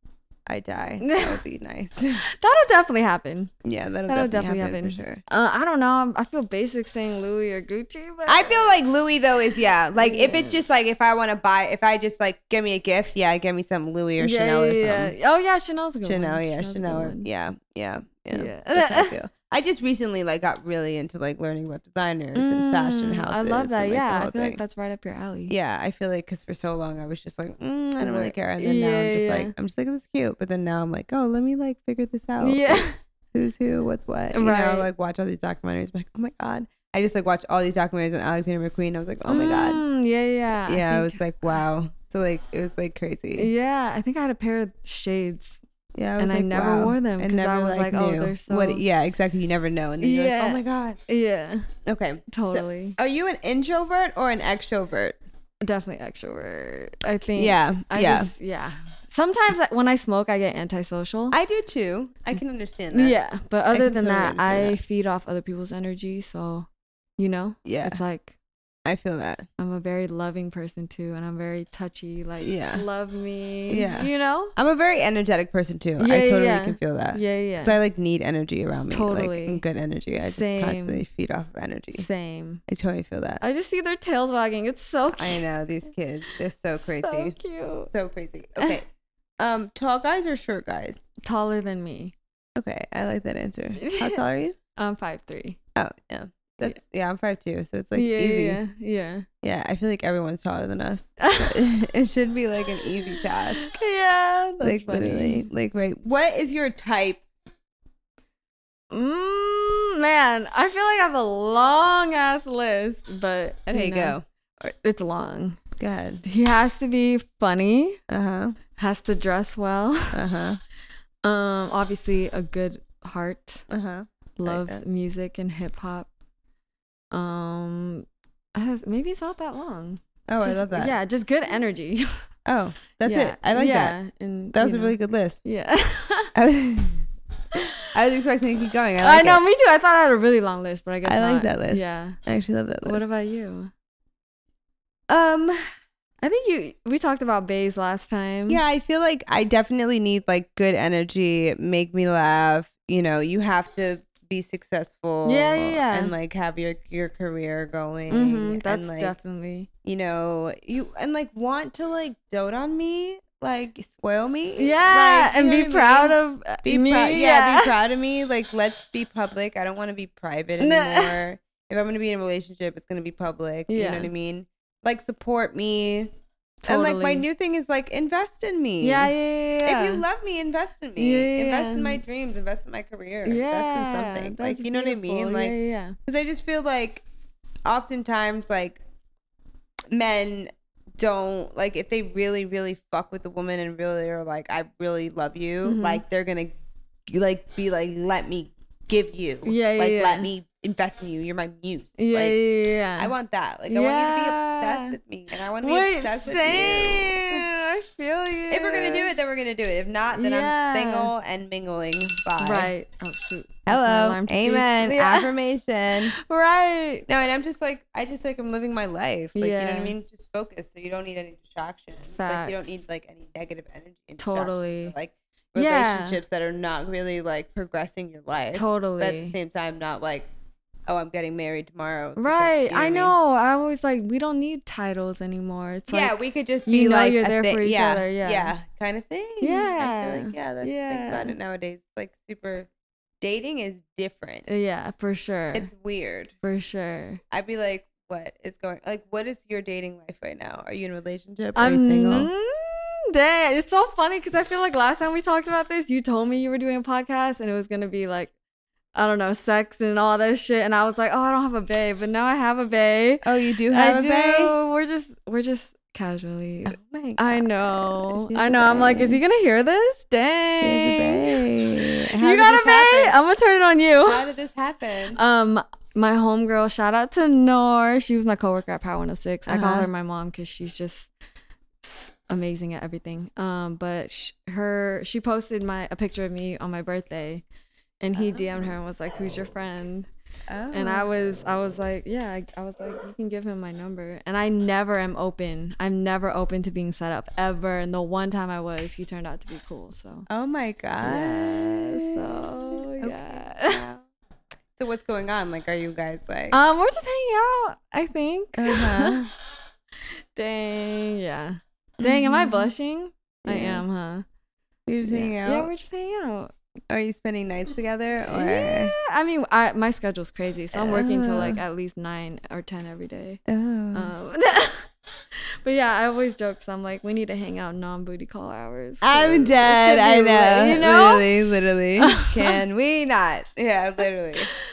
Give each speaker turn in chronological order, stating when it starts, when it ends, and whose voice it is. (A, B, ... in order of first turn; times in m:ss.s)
0:00.5-0:02.2 A
0:01.0-0:01.4 B
0:02.3-0:03.5 B
0:03.6-0:05.2 A
0:04.1-0:08.7 B
0:08.3-0:15.1 A
0:10.0-0:10.6 B
0:14.2-0:17.3 B
0:16.0-0:24.6 A
0:18.3-0:19.1 B
0:22.3-0:25.5 B
0:25.5-0:39.8 A
0:28.0-0:29.5 B
0:32.4-0:33.0 B
0:34.3-0:34.9 B
0:39.2-0:41.2 B
0:40.7-0:43.5 A
0:43.4-0:45.6 B
0:45.9-0:51.0 A
0:46.2-0:48.8 B
0:50.0-0:51.7 B
0:51.8-0:55.2 A
0:52.3-0:53.0 B
0:55.6-1:01.4 B
0:57.4-0:58.3 A
1:01.3-1:03.2 A
1:02.9-1:06.7 B
1:03.7-1:04.8 A
1:07.2-1:08.3 B
1:07.6-1:08.0 A
1:08.8-1:09.5 A
1:09.6-1:14.5 B
1:12.4-1:12.8 A
1:13.7-1:22.0 A
1:16.0-1:17.8 B
1:18.9-1:19.6 B
1:20.2-1:21.0 B
1:21.9-1:22.6 B
1:22.7-1:23.4 A
1:23.4-1:25.4 B
1:25.1-1:27.4 A
1:27.0-1:27.9 B
1:27.9-1:28.8 A
1:29.4-1:31.0 A
1:31.2-1:32.1 B
1:32.6-1:34.6 A
1:33.8-1:34.2 B
1:34.8-1:35.6 B
1:35.8-1:38.6 A
1:37.9-1:39.2 B
1:39.4-1:43.6 A
1:41.2-1:41.6 B
1:43.0-1:45.5 B
1:44.6-1:47.2 A
1:48.9-1:55.6 B
1:53.7-1:54.2 A
1:55.8-1:56.2 A
1:56.2-1:58.0 B
1:58.1-1:58.6 A
1:58.8-2:00.2 B
2:00.1-2:00.6 A
2:01.2-2:03.6 B
2:03.7-2:04.8 A
2:04.4-2:06.1 B
2:07.1-2:12.1 B
2:10.3-2:10.9 A
2:12.4-2:14.0 A
2:13.0-2:16.3 B
2:14.5-2:15.4 A
2:16.3-2:17.0 A
2:17.9-2:19.4 A
2:19.0-2:22.2 B
2:21.0-2:23.0 A
2:22.8-2:23.7 B
2:25.1-2:25.7 A
2:26.2-2:28.6 B
2:28.5-2:39.1 A
2:35.2-2:36.1 B
2:38.1-2:39.7 B
2:39.8-2:56.1 A
2:44.6-2:47.7 B
2:50.6-2:51.1 B
2:53.7-2:54.1 B
2:56.6-2:57.2 B
2:56.6-2:59.1 A
2:58.8-3:00.0 B
2:59.6-3:05.5 A
3:01.0-3:02.0 B
3:03.2-3:06.0 B
3:06.0-3:07.0 A
3:07.6-3:08.8 A
3:09.9-3:16.5 A
3:15.6-3:16.0 B
3:17.1-3:22.4 A
3:19.4-3:20.3 B
3:22.0-3:23.1 B
3:23.0-3:27.5 A
3:23.7-3:25.0 B
3:25.6-3:29.1 B
3:28.5-3:32.7 A
3:30.1-3:31.1 B
3:32.4-3:35.3 B
3:33.6-3:36.1 A
3:36.1-3:37.0 B
3:37.1-3:50.3 A
3:39.3-3:39.9 B
3:42.2-3:42.7 B
3:44.2-3:44.9 B
3:45.5-3:46.2 B
3:48.5-3:49.4 B
3:50.9-3:53.1 A
3:52.2-3:56.1 B
3:55.9-4:02.7 A
3:56.6-3:58.5 B
3:59.4-4:01.3 B
4:03.2-4:04.4 A
4:04.5-4:05.7 B
4:05.5-4:06.3 A
4:06.4-4:07.2 B
4:07.3-4:12.3 A
4:11.5-4:18.3 B
4:18.9-4:31.4 B
4:23.2-4:24.5 A
4:26.6-4:29.2 A
4:30.6-4:33.1 A
4:32.0-4:34.2 B
4:34.0-4:35.2 A
4:35.1-4:41.1 B
4:39.5-4:39.9 A
4:41.8-4:47.4 B
4:48.0-4:50.1 B
4:48.2-4:48.7 A
4:50.5-4:51.1 A
4:50.7-5:00.3 B
5:00.3-5:04.0 A
5:01.0-5:03.8 B
5:04.8-5:06.6 A
5:06.5-5:09.2 B
5:08.6-5:09.3 A
5:10.3-5:14.2 B
5:12.0-5:12.7 A
5:13.4-5:13.8 A
5:14.9-5:15.7 A
5:15.0-5:16.5 B
5:16.9-5:18.9 A
5:18.3-5:23.4 B
5:20.7-5:21.6 A
5:23.5-5:24.1 A
5:23.9-5:24.8 B
5:25.6-5:31.3 B
5:29.0-5:34.5 A
5:32.0-5:32.6 B